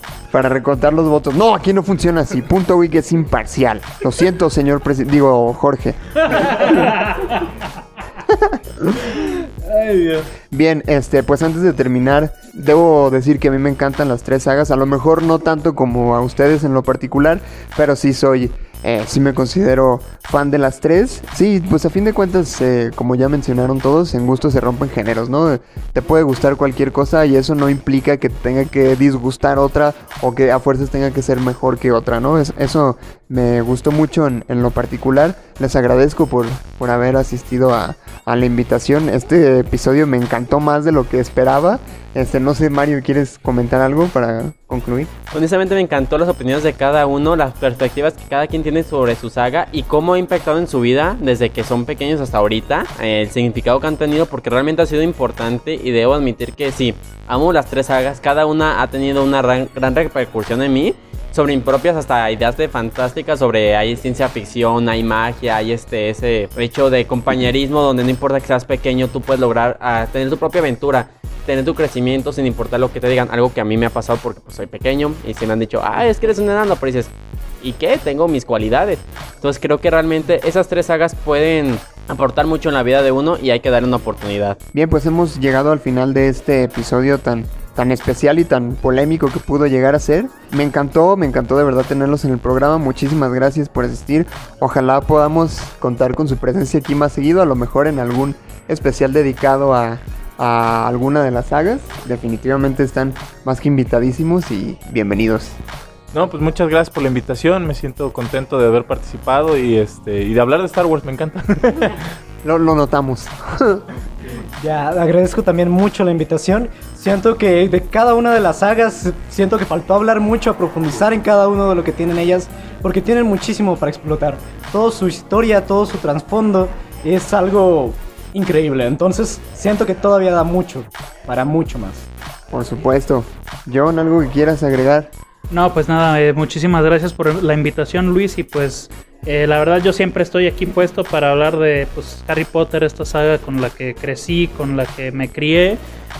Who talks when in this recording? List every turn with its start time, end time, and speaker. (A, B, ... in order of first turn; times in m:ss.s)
0:00.3-0:06.8 A
0:08.3-0:09.2 A
0:10.5-0:45.1 A
0:45.3-1:24.6 B
1:24.7-1:45.6 A
1:46.1-1:52.0 C
1:52.4-1:53.8 A
1:54.6-2:12.1 D
2:12.5-2:15.1 A
2:15.5-2:25.8 E